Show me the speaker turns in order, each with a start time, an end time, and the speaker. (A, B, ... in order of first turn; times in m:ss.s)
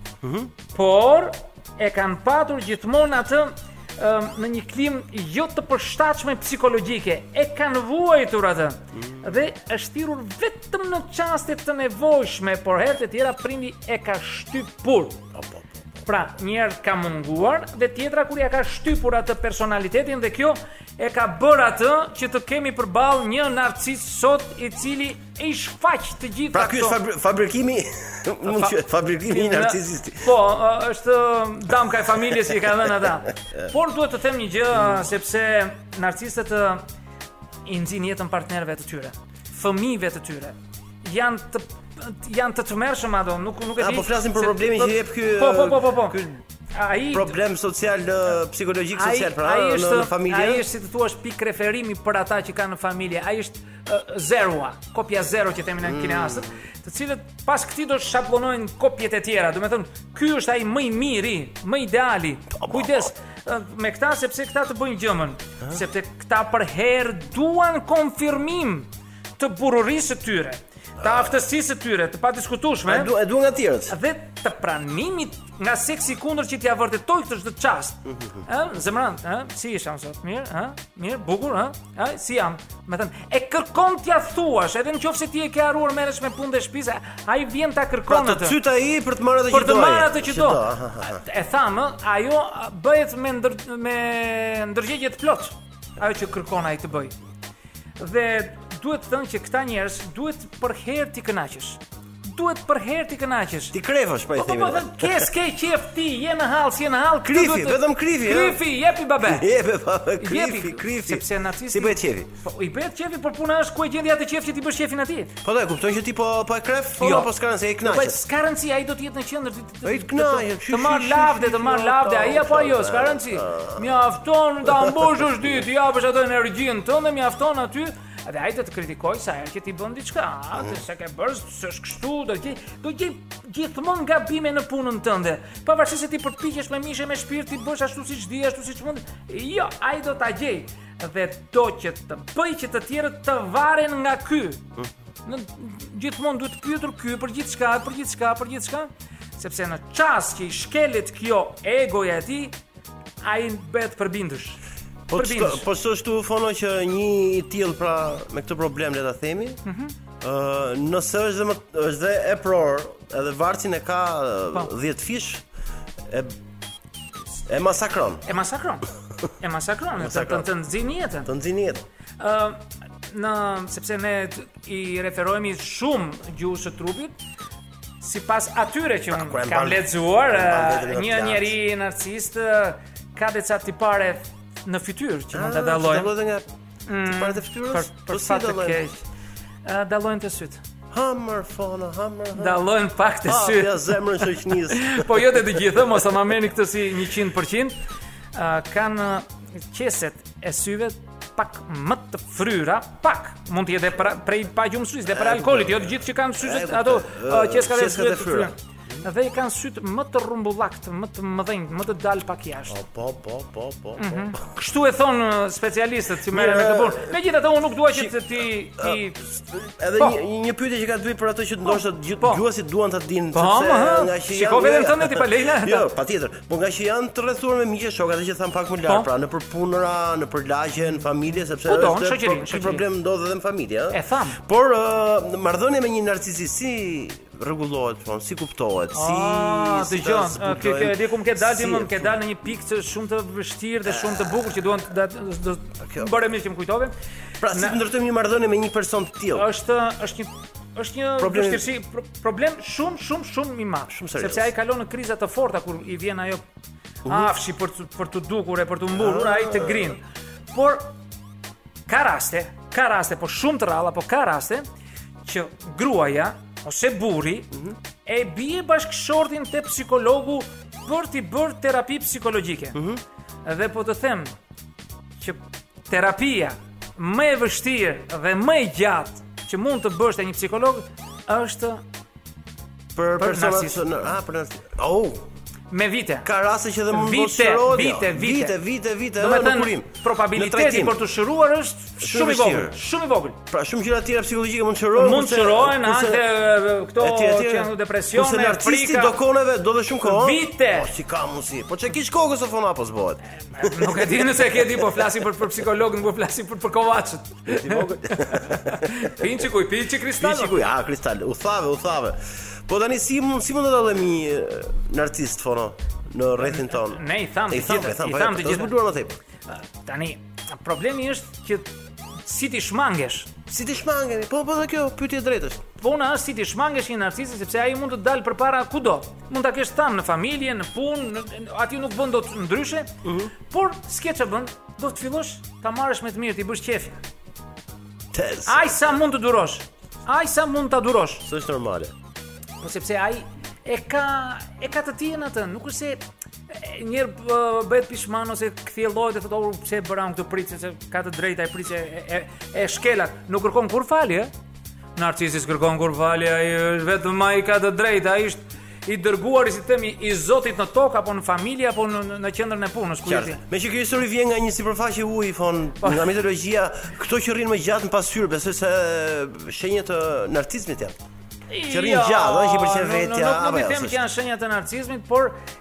0:00.2-0:00.5 A
0:00.7-0:15.2 B
0:08.9-0:09.4 A
0:15.3-0:16.0 A
0:16.0-0:27.0 B
0:26.5-0:30.4 A
0:28.4-0:36.8 B
0:37.6-0:46.2 B
0:43.8-0:46.4 A
0:46.7-0:47.3 B
0:47.1-0:50.6 A
0:48.9-1:13.1 B
0:55.8-0:56.6 A
1:02.6-1:03.1 A
1:11.0-1:11.3 A
1:12.8-1:13.9 A
1:13.9-1:28.6 B
1:28.1-1:31.2 A
1:29.5-1:37.1 B
1:38.0-1:43.7 B
1:43.7-1:45.3 A
1:44.3-1:49.5 B
1:47.2-1:48.6 A
1:49.2-1:52.3 A
1:50.2-1:55.3 B
1:55.4-1:58.2 A
1:57.0-1:57.3 B
1:57.8-2:24.6 B
1:59.8-2:04.0 A
2:04.6-2:05.4 A
2:25.2-2:32.5 B
2:33.2-2:34.6 B
2:35.1-2:39.6 A
2:35.1-2:35.6 B
2:39.6-2:39.9 B
2:40.2-2:45.4 A
2:47.5-2:48.2 A
2:48.2-2:51.3 B
2:50.0-2:50.5 A
2:51.2-2:51.8 A
2:52.2-2:57.1 B
2:58.0-3:06.1 B
2:59.1-3:01.5 A
3:05.3-3:06.4 A
3:06.9-3:09.0 B
3:07.0-3:08.8 A
3:09.6-3:10.6 B
3:10.9-3:12.6 A
3:12.3-3:17.8 B
3:13.2-3:15.5 A
3:18.3-3:32.8 B
3:25.0-3:28.5 A
3:32.7-3:34.4 A
3:34.0-3:39.3 B
3:36.3-3:37.2 A
3:37.9-4:02.2 A
3:41.6-3:42.4 B
3:43.3-3:45.8 B
3:51.6-3:52.8 B
3:53.9-3:54.4 B
3:58.9-4:06.9 B
4:03.9-4:04.6 A
4:05.8-4:06.2 A
4:07.4-4:09.4 A
4:07.5-4:07.8 B
4:09.3-4:16.4 B
4:11.2-4:11.6 A
4:13.9-4:14.5 A
4:17.0-4:17.3 A
4:17.0-4:20.0 B
4:18.9-4:20.0 A
4:20.5-4:20.9 B
4:21.9-4:24.6 B
4:25.2-4:27.5 B
4:28.0-4:32.8 B
4:32.7-4:33.0 A
4:33.4-4:34.3 B
4:35.2-4:41.8 B
4:42.9-4:45.2 A
4:43.2-4:43.8 B
4:45.7-4:46.3 B
4:46.2-4:51.0 A
4:46.9-4:48.6 B
4:49.2-4:53.4 B
4:52.0-4:52.8 A
4:53.5-4:56.3 A
4:54.9-4:59.2 B
4:57.0-5:04.3 A
5:00.0-5:00.9 B
5:03.5-5:10.7 B
5:07.5-5:09.3 A
5:10.2-5:19.2 A
5:16.4-5:18.7 B
5:19.5-5:23.4 B
5:23.5-5:25.6 A
5:25.8-5:37.0 B
5:33.0-5:33.3 A
5:38.1-5:38.8 A
5:38.4-5:41.2 B
5:41.2-5:41.9 A
5:42.6-5:46.0 B
5:46.5-5:54.3 B
5:55.0-6:03.4 B
6:03.0-6:11.0 A
6:05.8-6:06.1 B
6:11.5-6:15.4 B
6:11.7-6:14.0 A